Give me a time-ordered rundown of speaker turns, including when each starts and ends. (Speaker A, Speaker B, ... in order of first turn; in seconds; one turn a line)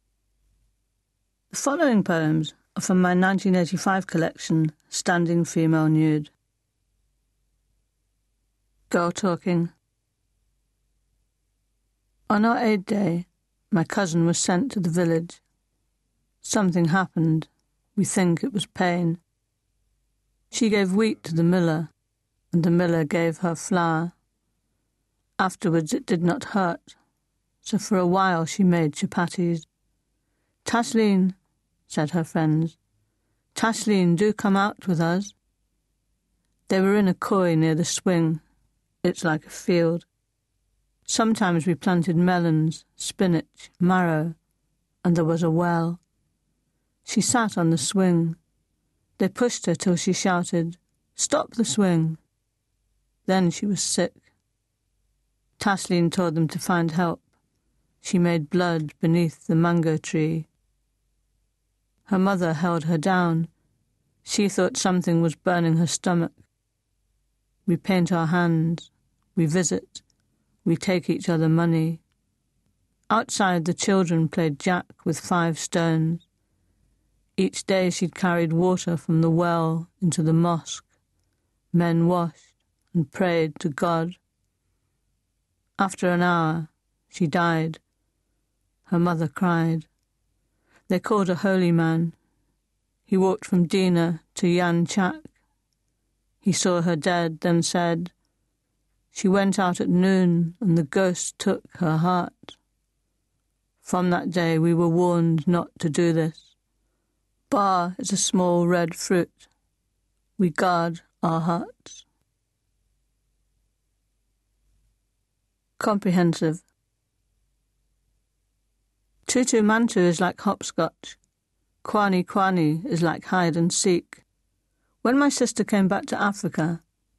Speaker A: 1.5-6.3
Speaker A: 8.9-9.7
Speaker A: 12.3-15.4
Speaker A: 16.4-19.2
Speaker A: 20.5-21.9
Speaker A: 22.5-24.1
Speaker A: 25.4-26.9
Speaker A: 27.6-29.6
Speaker A: 30.6-31.4
Speaker A: 31.9-32.8
Speaker A: 33.5-35.3
Speaker A: 36.7-38.4
Speaker A: 39.0-40.0
Speaker A: 41.0-44.3
Speaker A: 45.0-46.0
Speaker A: 47.0-48.4
Speaker A: 49.2-52.2
Speaker A: 53.3-54.2
Speaker A: 55.6-57.2
Speaker A: 58.0-60.5
Speaker A: 62.1-63.5
Speaker A: 64.2-66.3
Speaker A: 67.7-70.0
Speaker A: 70.6-72.0
Speaker A: 73.1-76.2
Speaker A: 77.4-80.9
Speaker A: 81.7-84.2
Speaker A: 85.8-87.8
Speaker A: 88.9-89.9
Speaker A: 90.9-92.2
Speaker A: 93.1-95.3
Speaker A: 96.4-98.1
Speaker A: 99.1-102.6
Speaker A: 103.8-106.5
Speaker A: 107.5-109.4
Speaker A: 110.4-112.0
Speaker A: 115.8-116.6
Speaker A: 119.2-121.2
Speaker A: 121.8-124.2
Speaker A: 125.0-126.8